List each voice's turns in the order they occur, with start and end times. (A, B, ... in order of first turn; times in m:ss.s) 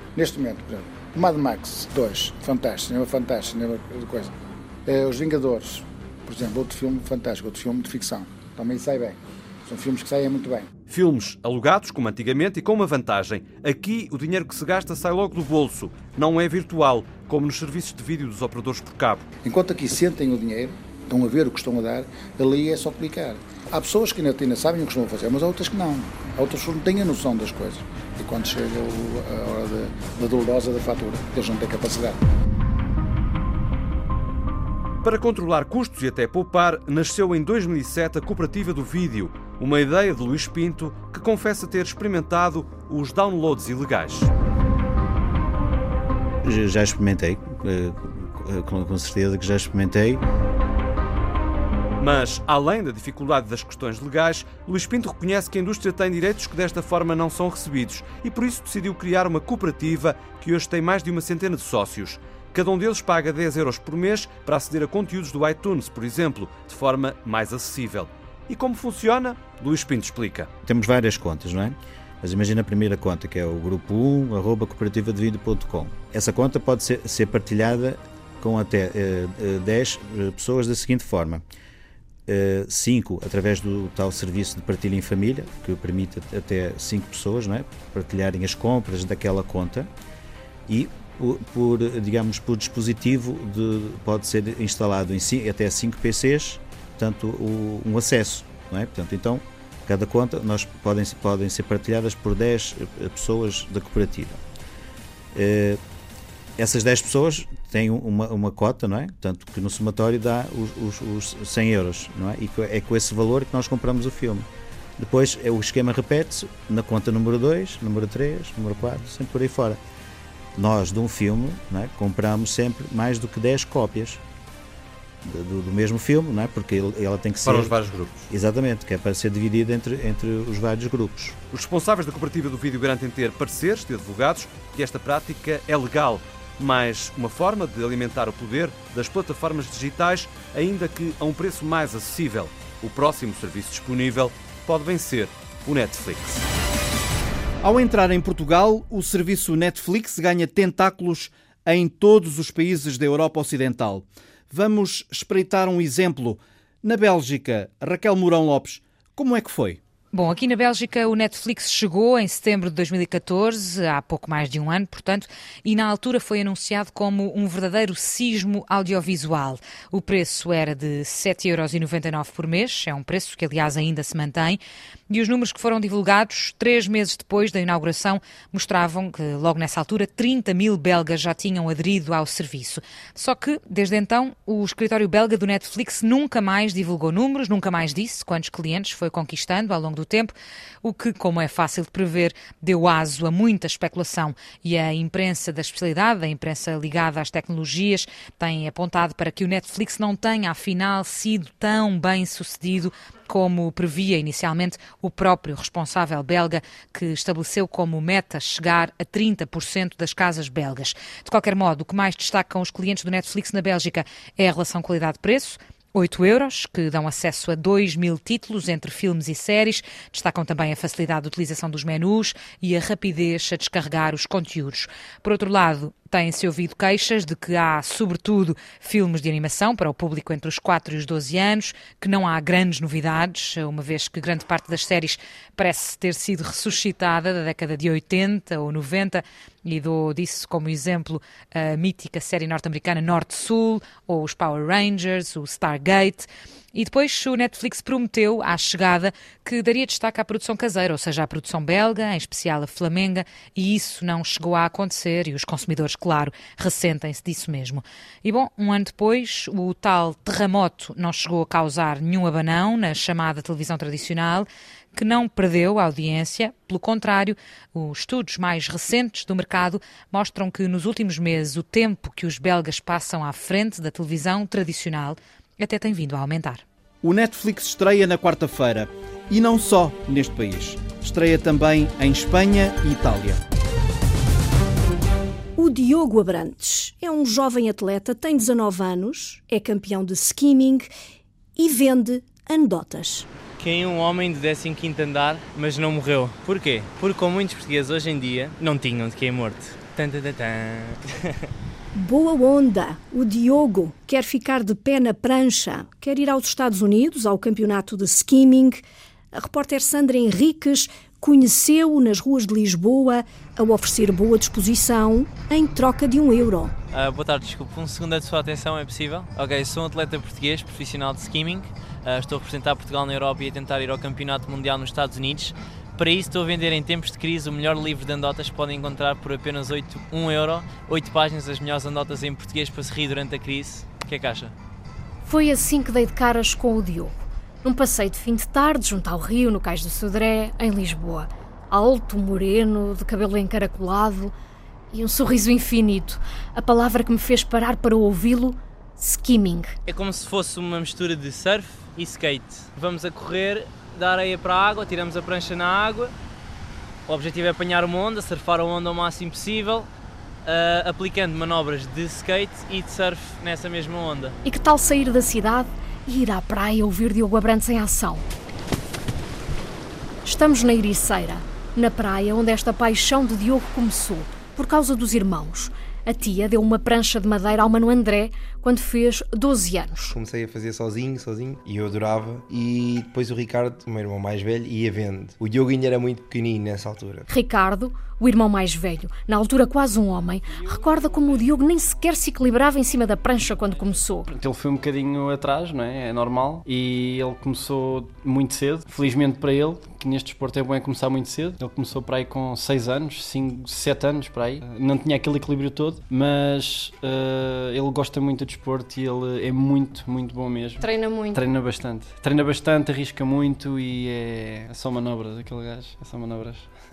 0:00.2-0:04.3 A
0:04.9-0:10.7 A
0:10.9-0:19.2 B
0:19.4-0:32.2 A
0:35.0-0:44.3 B
0:46.4-0:50.2 C
0:52.0-1:10.5 B
1:10.6-1:21.4 C
1:22.3-1:29.9 C
1:30.7-1:44.4 C
1:45.3-1:45.8 C
1:46.6-1:59.8 C
2:00.6-2:04.2 C
2:05.2-2:07.8 C
2:07.5-2:08.3 B
2:08.3-2:11.4 C
2:11.5-2:26.4 B
2:27.6-2:39.8 D
2:40.1-4:36.6 E
4:37.0-4:43.4 D
4:45.6-4:50.9 F
4:51.6-4:53.3 F
4:53.6-5:01.1 G
5:02.0-5:08.8 F
5:09.3-5:16.7 F
5:16.9-5:34.5 G
5:35.2-5:44.3 H
5:44.9-5:49.7 H
5:49.9-5:56.1 G
5:57.1-5:59.9 G
6:00.4-6:04.3 G
6:04.4-6:08.2 H
6:10.2-6:20.0 H
6:20.1-6:27.3 I
6:27.3-6:34.3 H
6:30.5-6:31.7 J
6:33.4-6:56.7 J